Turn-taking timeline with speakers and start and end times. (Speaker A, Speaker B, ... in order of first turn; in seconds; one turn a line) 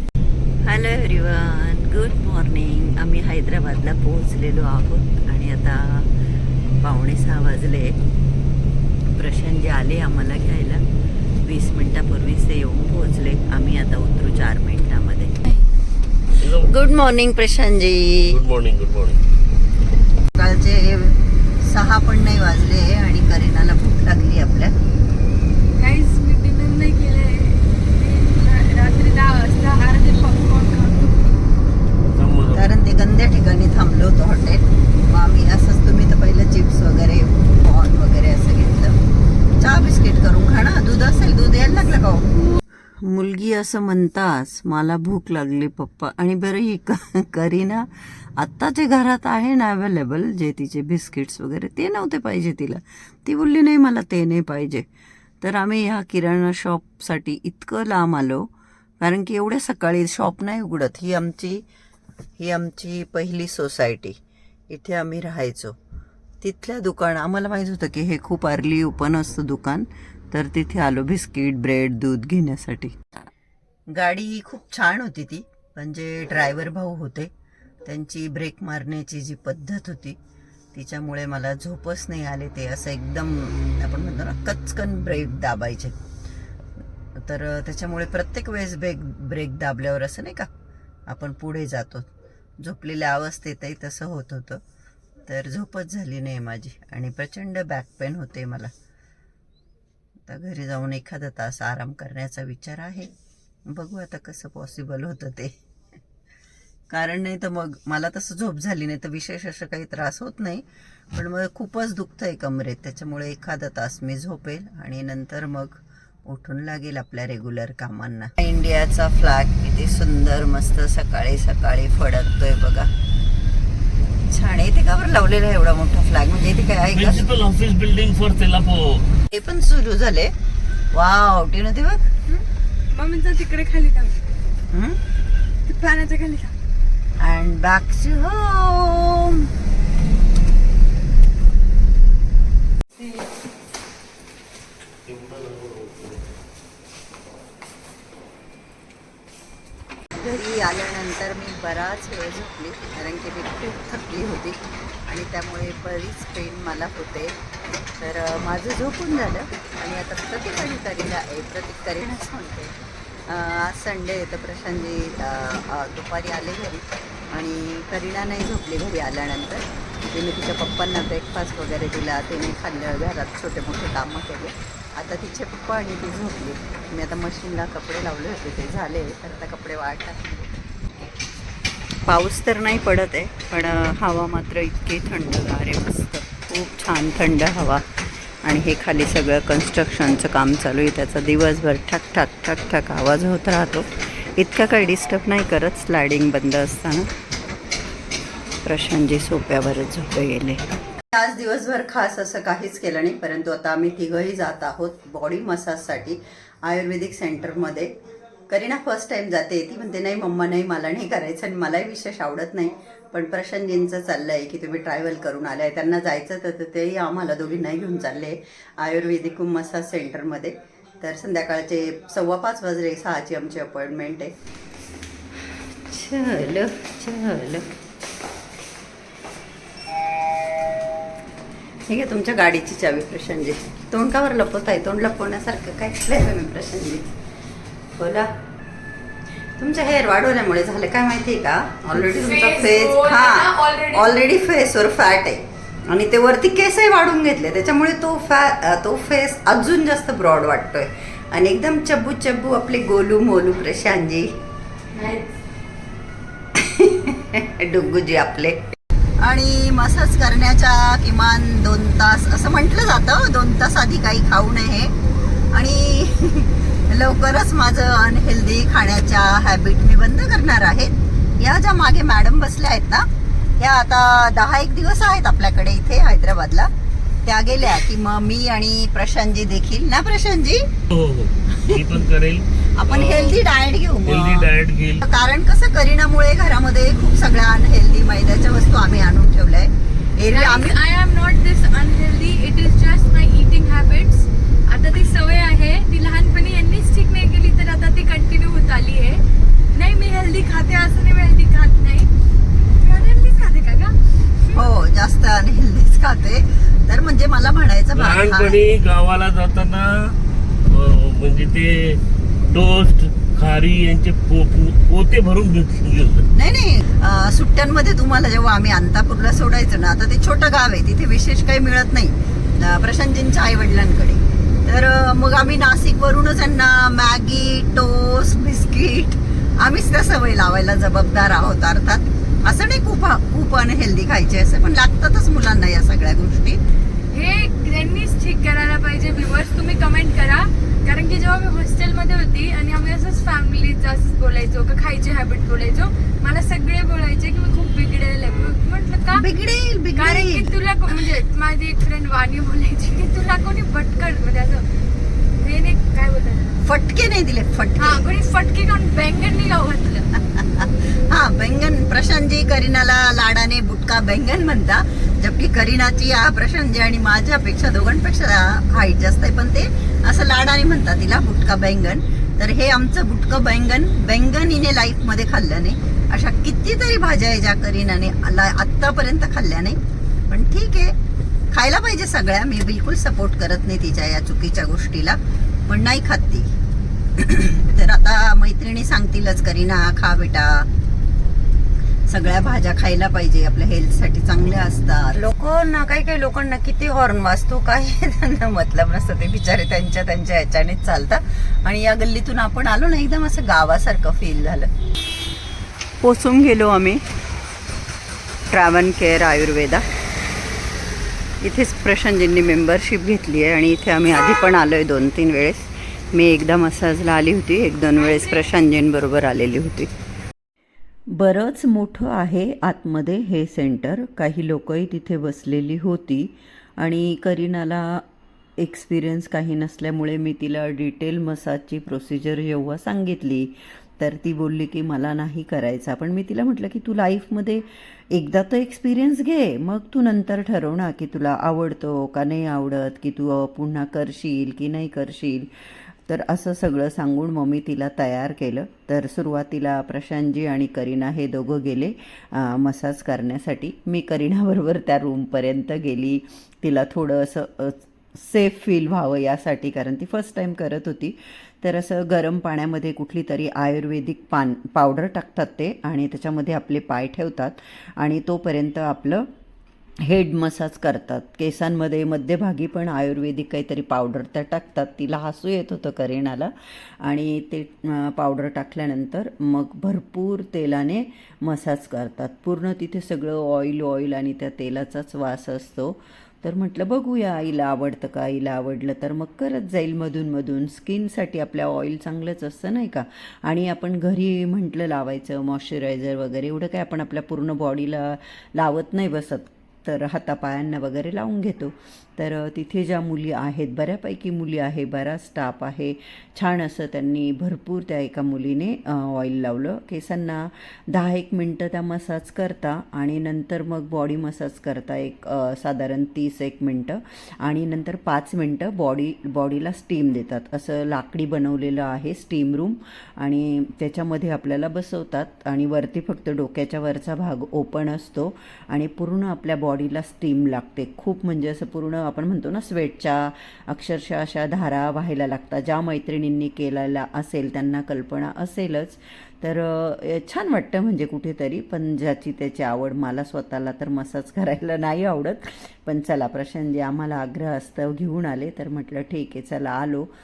Speaker A: 0.6-6.1
Speaker A: 6.8-8.0
Speaker A: 9.1-10.8
Speaker A: 11.4-15.4
Speaker B: 16.4-16.8
Speaker A: 16.4-18.4
Speaker B: 18.3-19.2
Speaker A: 20.3-24.8
Speaker C: 25.8-31.4
Speaker B: 32.1-32.7
Speaker A: 32.5-39.0
Speaker A: 39.6-54.9
Speaker A: 55.4-61.6
Speaker A: 62.4-64.2
Speaker A: 64.7-65.8
Speaker A: 66.4-73.0
Speaker A: 73.9-77.3
Speaker A: 77.8-80.2
Speaker A: 80.7-86.0
Speaker A: 87.2-90.5
Speaker A: 91.1-92.1
Speaker A: 92.6-94.6
Speaker A: 95.3-98.7
Speaker A: 100.3-103.1
Speaker A: 103.7-105.5
Speaker A: 106.9-122.9
Speaker A: 124.3-127.2
Speaker B: 126.9-129.1
Speaker A: 129.3-130.3
Speaker A: 130.9-132.0
Speaker C: 132.3-134.2
Speaker A: 134.7-135.0
Speaker C: 135.7-136.6
Speaker A: 137.2-139.5
Speaker B: 145.1-146.3
Speaker A: 150.2-157.4
Speaker A: 158.0-180.5
Speaker A: 182.1-187.8
Speaker A: 188.4-197.1
Speaker A: 198.6-207.9
Speaker A: 208.5-224.3
Speaker A: 225.8-227.8
Speaker A: 231.9-237.1
Speaker A: 238.0-238.3
Speaker A: 239.6-254.3
Speaker C: 242.0-244.1
Speaker C: 254.9-255.3
Speaker A: 256.6-258.6
Speaker A: 259.2-265.0
Speaker A: 265.5-276.7
Speaker A: 277.2-280.7
Speaker B: 280.9-283.4
Speaker A: 281.5-281.8
Speaker A: 282.8-290.8
Speaker B: 284.1-285.0
Speaker C: 290.3-299.2
Speaker C: 299.7-304.7
Speaker A: 304.5-308.6
Speaker B: 307.9-316.3
Speaker A: 316.4-336.6
Speaker C: 337.1-349.2
Speaker A: 349.1-351.1
Speaker C: 350.0-354.7
Speaker C: 355.4-356.6
Speaker A: 356.6-358.0
Speaker C: 357.8-360.1
Speaker A: 360.1-381.0
Speaker A: 381.5-386.5
Speaker A: 387.2-390.7
Speaker A: 392.1-404.7
Speaker A: 406.0-407.0
Speaker A: 408.5-409.9
Speaker A: 411.4-419.9
Speaker A: 421.1-428.0
Speaker A: 428.6-445.5
Speaker A: 446.1-469.3
Speaker A: 470.0-550.1